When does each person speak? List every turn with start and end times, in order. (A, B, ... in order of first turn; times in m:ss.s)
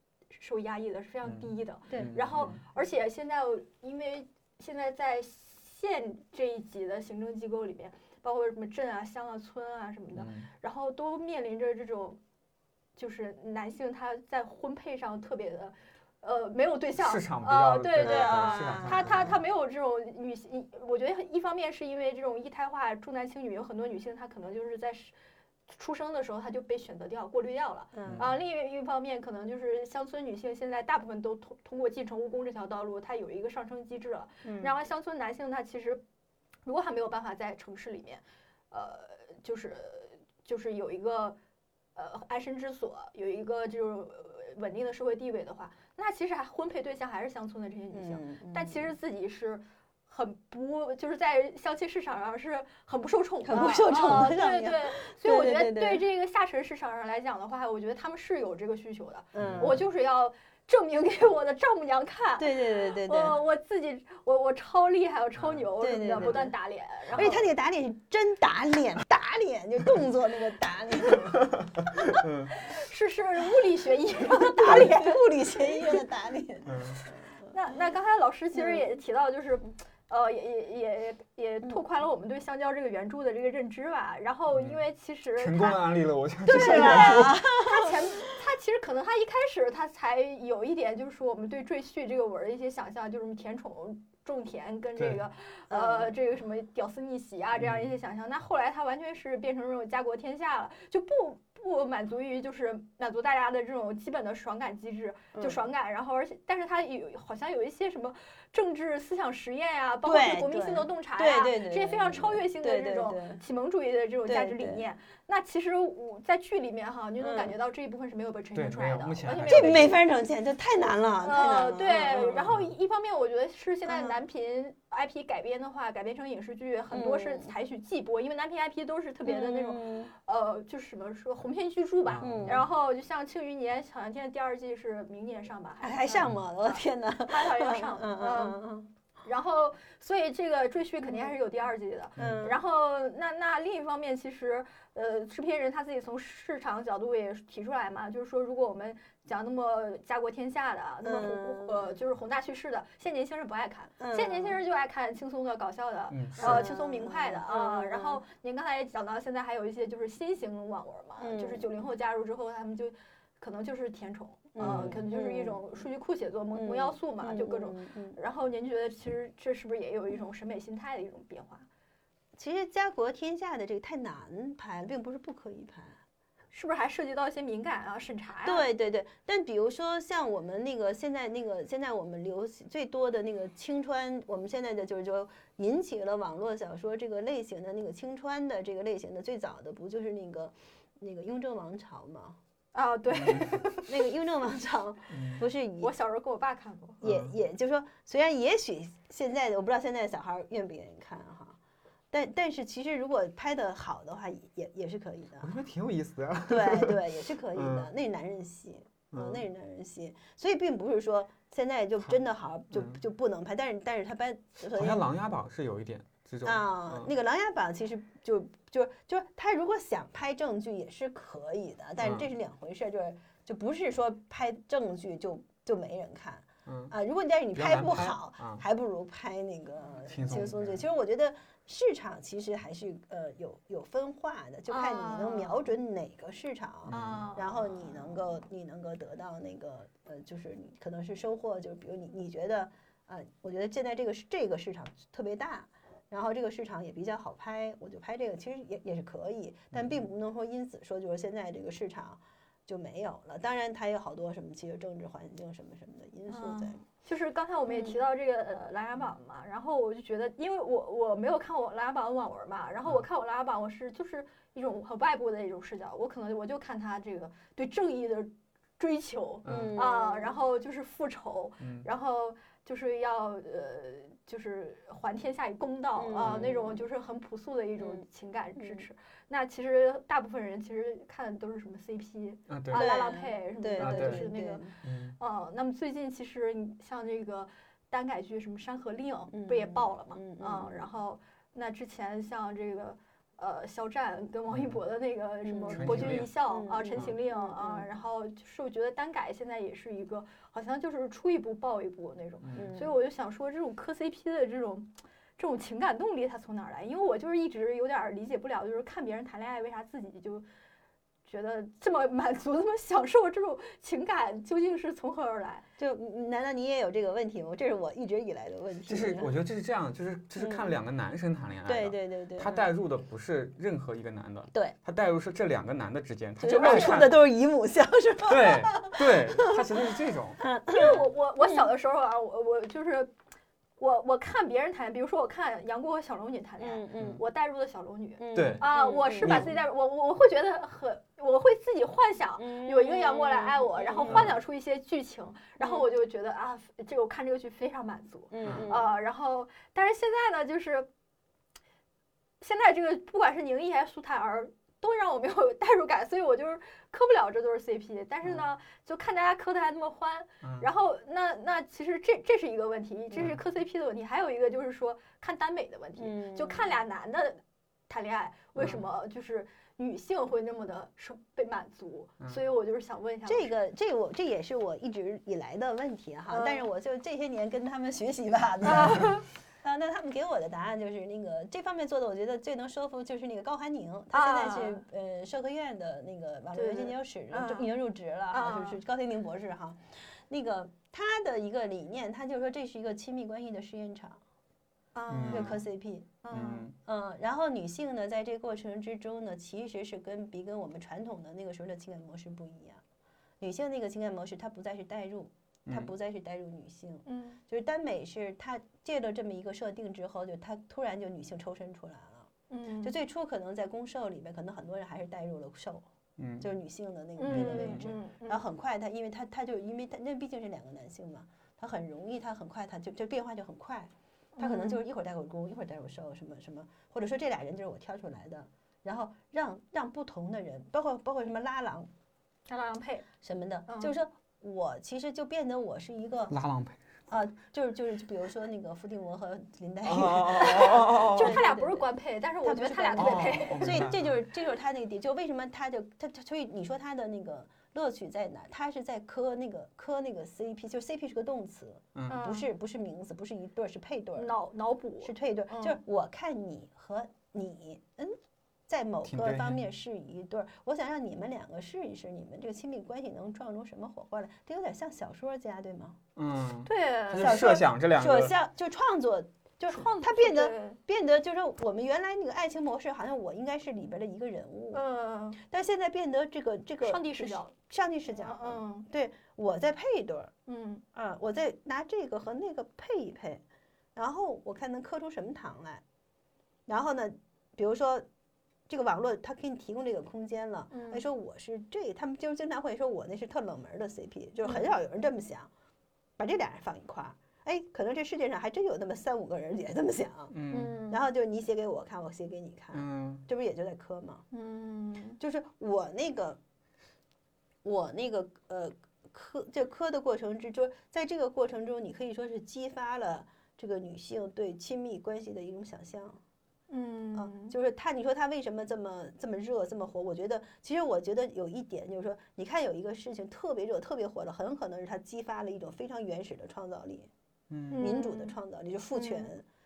0:00.3-0:12.2 A
0:01.2-0:02.6 B
0:01.9-0:02.2 C
0:10.1-0:10.5 B
0:13.0-0:25.1 A
0:17.0-0:19.4 B
0:18.0-0:19.4 C
0:25.7-0:36.0 A
0:27.9-0:28.3 C
0:34.4-0:34.7 C
0:36.6-0:41.4 A
0:42.0-1:07.4 A
0:47.9-0:48.9 C
0:53.4-0:56.0 C
0:59.3-0:59.8 C
0:59.4-0:59.8 B
1:02.4-1:03.4 C
1:05.4-1:05.6 B
1:05.8-1:06.5 C
1:07.1-1:12.1 C
1:11.5-1:12.5 B
1:12.6-1:16.0 A
1:14.2-1:17.5 C
1:16.6-1:17.0 B
1:17.5-2:00.0 A
1:18.5-1:18.8 C
1:24.5-1:24.8 B
1:25.3-1:27.4 B
1:26.4-1:28.0 C
1:35.0-1:35.2 B
1:35.7-1:36.1 C
1:37.6-1:37.9 B
1:45.3-1:45.6 C
1:50.0-1:53.4 C
1:54.2-1:54.8 C
1:57.2-1:57.5 C
1:58.5-2:00.0 B
1:59.5-2:02.5 C
2:01.2-2:18.6 A
2:03.8-2:04.2 C
2:06.9-2:07.5 C
2:09.2-2:10.1 C
2:12.0-2:12.6 B
2:12.2-2:12.6 C
2:15.8-2:18.9 C
2:19.2-2:51.7 A
2:21.0-2:21.4 C
2:22.2-2:22.4 B
2:22.2-2:22.6 C
2:31.0-2:31.9 C
2:34.0-2:34.6 C
2:36.1-2:36.7 B
2:36.4-2:38.2 C
2:41.2-2:41.7 C
2:44.5-2:45.8 C
2:44.6-2:45.0 B
2:46.5-2:48.2 C
2:52.4-2:56.0 C
2:56.5-2:58.7 A
2:58.4-3:12.4 C
3:12.7-3:14.1 A
3:13.2-3:13.6 B
3:13.8-3:15.9 C
3:15.1-3:15.4 B
3:15.8-3:17.0 A
3:17.0-3:21.6 C
3:17.0-3:17.3 B
3:22.1-3:25.6 C
3:25.4-3:27.0 B
3:26.5-3:35.0 C
3:27.5-3:27.9 B
3:29.1-3:29.4 B
3:32.7-3:33.0 B
3:34.7-3:37.1 B
3:36.4-4:16.8 C
3:42.0-3:42.3 B
3:46.6-3:46.9 B
3:47.5-3:48.6 B
3:50.1-3:50.8 B
3:54.7-3:55.6 A
3:56.9-3:57.3 B
3:56.9-3:57.9 A
4:16.3-5:10.4 A
4:17.7-4:18.0 C
4:29.4-4:29.8 B
4:29.4-4:30.4 C
4:31.6-4:31.9 B
4:36.0-4:36.8 C
4:37.8-4:38.0 C
4:38.6-4:38.8 C
4:42.5-4:42.9 B
4:42.7-4:44.7 C
4:43.8-4:44.2 B
4:44.8-4:45.2 B
4:49.3-4:50.8 C
4:54.5-4:54.8 B
4:55.4-4:57.9 C
4:55.7-4:56.3 B
5:02.4-5:02.7 B
5:02.5-5:02.9 C
5:11.2-5:15.6 A
5:15.8-5:19.3 C
5:18.9-5:27.2 B
5:20.4-5:20.8 C
5:21.6-5:22.7 C
5:26.4-5:29.5 C
5:28.3-5:30.4 B
5:30.4-5:31.7 C
5:30.7-5:33.1 A
5:33.8-5:50.9 A
5:36.6-5:37.2 C
5:38.2-5:39.6 C
5:38.3-5:38.7 B
5:39.2-5:39.5 B
5:42.4-5:44.4 C
5:44.0-5:44.4 B
5:45.6-5:45.8 C
5:48.3-5:48.9 C
5:48.4-5:48.7 B
5:52.4-6:13.5 A
6:00.4-6:00.7 B
6:06.0-6:06.7 C
6:08.6-6:08.8 B
6:13.3-6:34.2 C
6:16.3-6:16.6 A
6:18.6-6:19.2 A
6:24.1-6:24.8 A
6:26.5-6:27.7 A
6:28.3-6:28.8 A
6:34.9-6:35.6 A
6:35.1-6:35.6 B
6:35.3-6:36.1 C
6:36.2-6:36.7 A
6:36.3-6:36.7 B
6:36.8-6:42.8 C
6:43.4-6:52.3 C
6:47.0-6:47.4 A
6:52.5-6:52.9 A
6:52.8-6:55.8 C
6:56.2-6:56.4 B
6:56.4-7:11.9 C
6:57.2-6:58.4 A
6:57.2-6:57.9 B
7:04.4-7:04.8 A
7:12.5-7:13.1 A
7:13.2-7:16.4 C
7:13.7-7:13.9 A
7:16.3-7:16.8 B
7:17.1-7:21.9 C
7:19.8-7:21.4 B
7:20.3-7:23.9 A
7:22.4-7:34.3 C
7:23.0-7:24.1 B
7:31.9-7:32.2 B
7:32.1-7:32.5 A
7:34.2-7:35.8 A
7:35.0-7:38.2 C
7:38.7-7:46.0 C
7:39.0-7:39.6 B
7:46.2-7:48.3 B
7:46.6-7:47.5 A
7:47.2-7:54.8 C
7:49.7-7:50.8 A
7:54.7-7:55.4 A
7:55.4-8:00.3 C
7:56.8-7:57.5 A
7:58.1-7:58.9 A
8:00.5-8:00.8 A
8:00.9-8:03.4 C
8:04.0-8:05.8 C
8:06.7-8:08.0 C
8:08.7-8:15.5 C
8:10.7-8:11.0 A
8:16.2-8:20.4 C
8:20.3-8:20.8 B
8:20.5-8:21.0 A
8:20.9-8:24.2 C
8:22.7-8:23.2 B
8:24.3-8:25.2 A
8:25.2-8:26.4 C
8:27.6-8:36.2 C
8:36.7-8:37.5 A
8:37.1-8:47.1 C
8:47.5-8:47.8 B
8:47.7-8:48.4 A
8:47.8-8:49.4 C
8:48.9-8:49.3 A